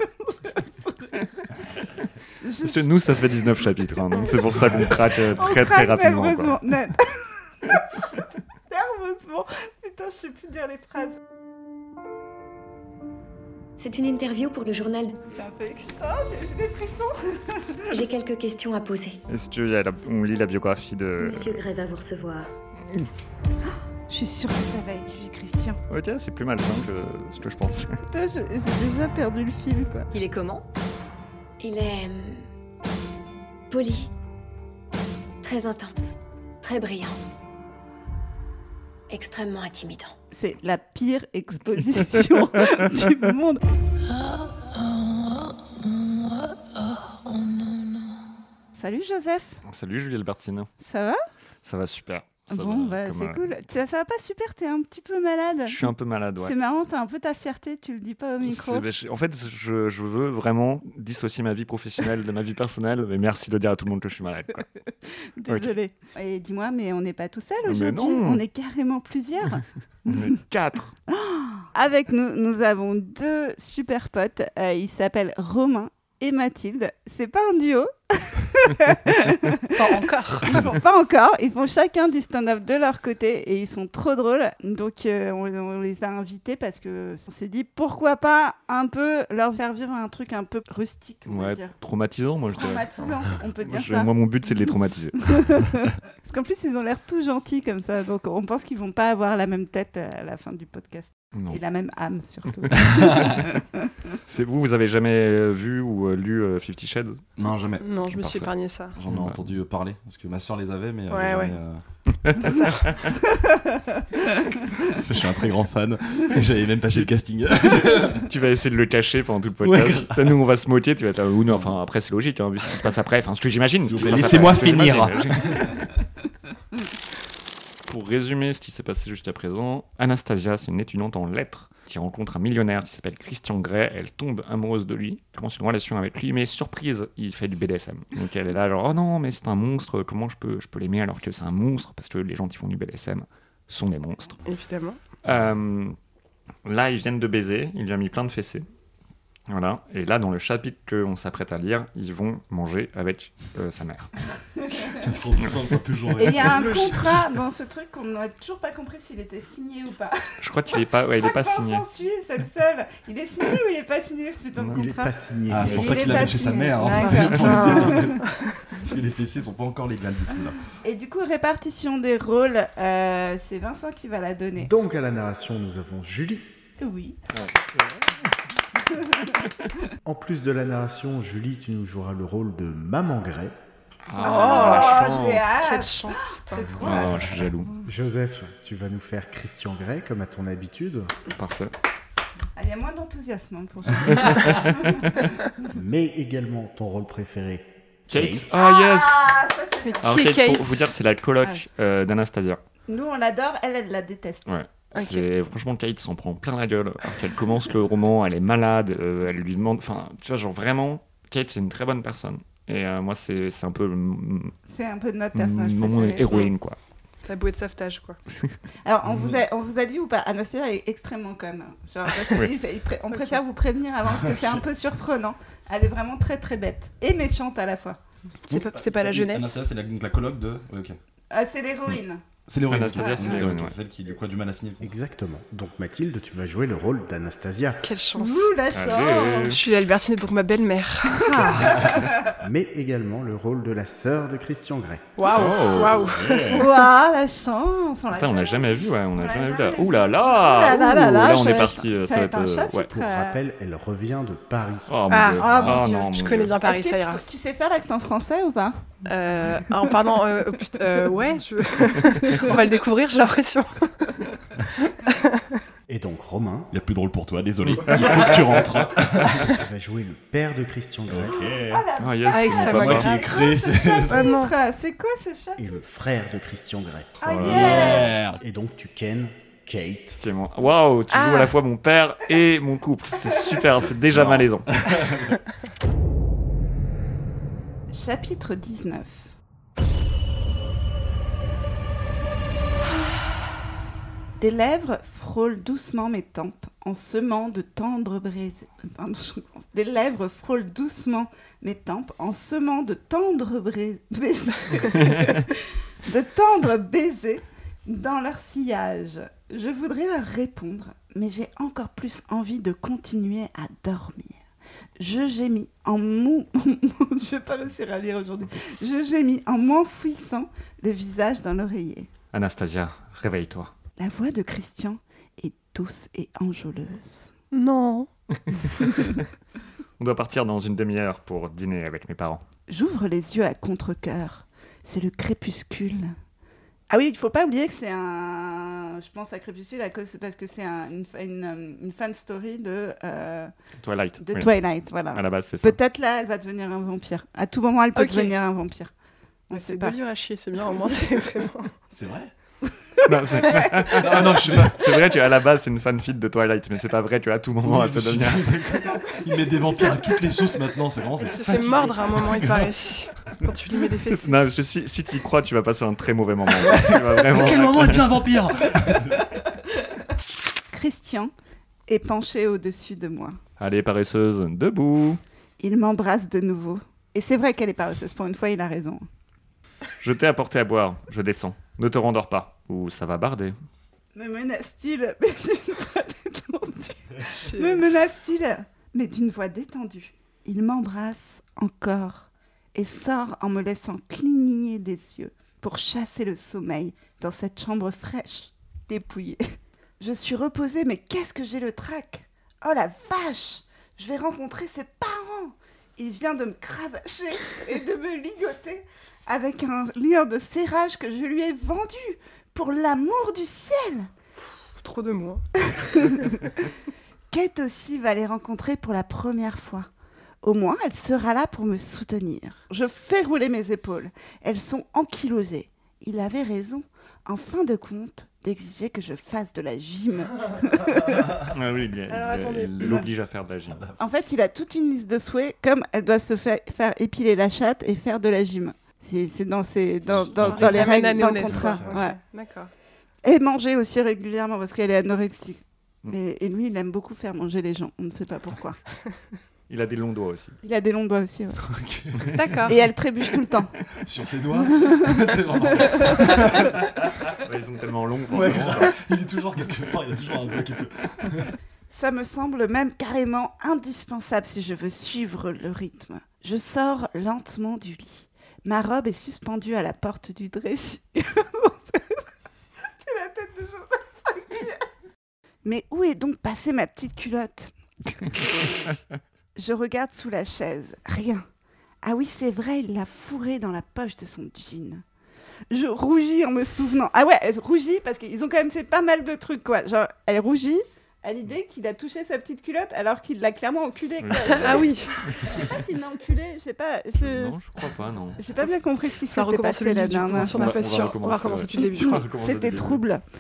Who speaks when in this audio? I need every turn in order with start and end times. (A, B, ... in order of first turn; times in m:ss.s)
0:02.4-0:02.9 A
0:02.6-0:06.6 B
0:05.4-0:07.3 A
0:08.7-0:11.2 A
0:13.8-0:15.2 C
0:15.3-0:17.9 A
0:17.9-0:19.2 C
0:19.3-0:21.6 B
0:21.2-0:22.5 C
0:23.7-0:25.8 A
0:25.9-0:28.0 B
0:28.1-0:30.1 A
0:30.1-0:30.7 C
0:31.6-0:32.4 C
0:33.7-0:34.1 C
0:35.4-0:37.2 C
0:39.1-0:40.1 C
0:40.3-0:43.6 A
0:48.8-0:49.6 A
0:49.7-0:50.7 B
0:50.8-0:51.2 A
0:51.6-0:53.5 B
0:52.5-0:55.8 A
0:55.7-0:56.6 B
0:56.4-0:58.8 A
0:58.5-1:04.7 B
1:05.4-1:10.1 A
1:05.5-1:05.8 B
1:07.6-1:08.4 B
1:10.1-1:11.0 B
1:11.1-1:31.7 A
1:19.7-1:20.7 D
1:31.3-1:32.9 B
1:32.5-1:34.1 A
1:33.7-1:35.6 B
1:35.3-1:43.5 A
1:41.3-1:41.6 B
1:42.8-1:43.2 E
1:44.3-1:47.2 B
1:47.4-1:47.9 E
1:47.8-1:49.0 D
1:48.1-1:48.5 B
1:49.0-1:51.8 E
1:49.1-1:49.4 B
1:51.1-1:51.6 D
1:52.2-1:53.0 B
1:52.3-1:53.1 D
1:54.8-1:58.3 E
1:57.9-2:05.7 B
1:59.6-2:00.3 E
2:03.9-2:05.8 E
2:07.9-2:24.4 B
2:24.4-2:25.0 D
2:25.2-2:26.0 B
2:26.7-2:28.6 B
2:29.5-2:34.1 B
2:34.8-2:37.3 E
2:36.2-2:40.4 A
2:40.4-2:41.8 B
2:41.1-2:45.1 A
2:44.7-2:46.4 F
2:45.5-2:50.6 E
2:45.6-2:48.2 A
2:46.9-2:47.9 D
2:50.8-2:54.7 A
2:54.6-2:56.5 F
2:56.8-2:57.2 A
2:57.3-2:57.9 B
3:00.0-3:03.5 F
3:04.1-3:05.5 B
3:04.2-3:06.8 D
3:04.2-3:07.3 A
3:06.8-3:07.7 B
3:07.8-3:11.1 F
3:11.3-3:11.7 B
3:12.6-3:15.1 A
3:14.1-3:15.1 B
3:15.7-3:18.5 F
3:18.1-3:19.4 B
3:18.6-3:20.0 A
3:19.8-3:20.9 D
3:20.0-3:22.6 B
3:22.9-3:24.5 A
3:24.5-3:34.6 B
3:24.9-3:25.3 D
3:34.7-3:36.5 A
3:35.4-3:36.8 B
3:37.3-3:38.2 D
3:38.8-3:48.0 A
3:39.1-3:39.3 E
3:43.1-3:43.4 D
3:44.1-3:44.6 E
3:48.5-3:49.6 D
3:48.5-3:51.0 E
3:51.3-3:52.2 A
3:52.5-3:54.9 E
3:52.7-3:53.8 B
3:54.8-3:57.9 F
3:57.8-3:58.6 D
3:58.2-3:59.6 A
3:58.7-3:59.6 B
3:59.4-4:01.7 D
4:01.1-4:02.3 A
4:02.4-4:05.1 F
4:05.2-4:06.9 D
4:05.3-4:06.1 B
4:06.5-4:13.4 A
4:08.2-4:12.9 B
4:12.9-4:14.9 F
4:14.9-4:16.6 B
4:15.1-4:17.2 D
4:15.4-4:18.8 A
4:15.5-4:15.8 E
4:19.0-4:24.2 D
4:25.1-4:25.6 D
4:25.9-4:26.7 F
4:26.7-4:29.6 E
4:27.6-4:28.8 B
4:29.4-4:31.5 F
4:31.1-4:31.8 E
4:31.3-4:35.8 A
4:32.0-4:33.1 B
4:32.3-4:33.4 D
4:32.6-4:34.3 E
4:34.1-4:34.5 D
4:35.6-4:40.2 F
4:37.2-4:38.2 A
4:37.3-4:38.2 B
4:37.4-4:38.4 E
4:40.2-4:44.8 B
4:41.1-4:41.5 D
4:44.1-4:45.4 E
4:47.9-4:49.3 A
4:54.4-5:14.4 A
5:15.0-5:22.1 A
5:22.3-5:23.7 B
5:24.0-5:27.3 A
5:27.5-5:28.1 D
5:28.8-5:29.2 B
5:30.0-5:32.4 B
5:32.7-5:36.2 A
5:36.9-5:43.5 A
5:43.8-5:44.5 B
5:44.2-5:48.9 A
5:45.1-5:45.8 B
5:47.9-5:48.4 D
5:49.5-5:50.0 A
5:49.5-5:51.7 D
5:51.9-5:52.3 E
5:52.8-5:53.8 A
5:53.0-5:58.8 B
5:53.9-5:54.9 E
5:57.6-6:02.7 E
6:01.2-6:04.4 D
6:04.1-6:08.2 B
6:06.6-6:09.3 E
6:10.7-6:11.3 A
6:11.9-6:13.4 A
6:13.6-6:15.2 B
6:15.6-6:19.1 A
6:20.0-6:23.6 B
6:24.2-6:54.1 A
6:27.3-6:27.9 D
6:54.8-6:55.4 D
6:55.6-6:56.4 A
6:57.3-6:59.9 A
7:00.4-7:11.4 A
7:11.5-7:14.0 B
7:12.1-7:13.1 D
7:14.0-7:22.2 A
7:20.4-7:20.9 E
7:20.4-7:22.7 D
7:21.4-7:22.0 E
7:23.2-7:28.8 A
7:29.7-7:30.6 B
7:30.6-7:31.6 A
7:31.6-7:32.5 E
7:32.4-7:32.8 D
7:32.7-7:33.7 A
7:34.0-7:36.8 E
7:36.5-7:38.9 B
7:38.3-7:41.5 E
7:41.9-7:52.2 A
7:53.0-7:54.9 A
7:55.6-7:57.7 A
7:59.6-8:01.4 A
8:02.0-8:05.0 A
8:05.7-8:17.6 A
8:14.2-8:15.5 B
8:14.4-8:15.6 D
8:17.2-8:18.4 B
8:18.4-8:20.7 A
8:19.3-8:22.2 D
8:20.4-8:23.0 B
8:21.7-8:23.2 A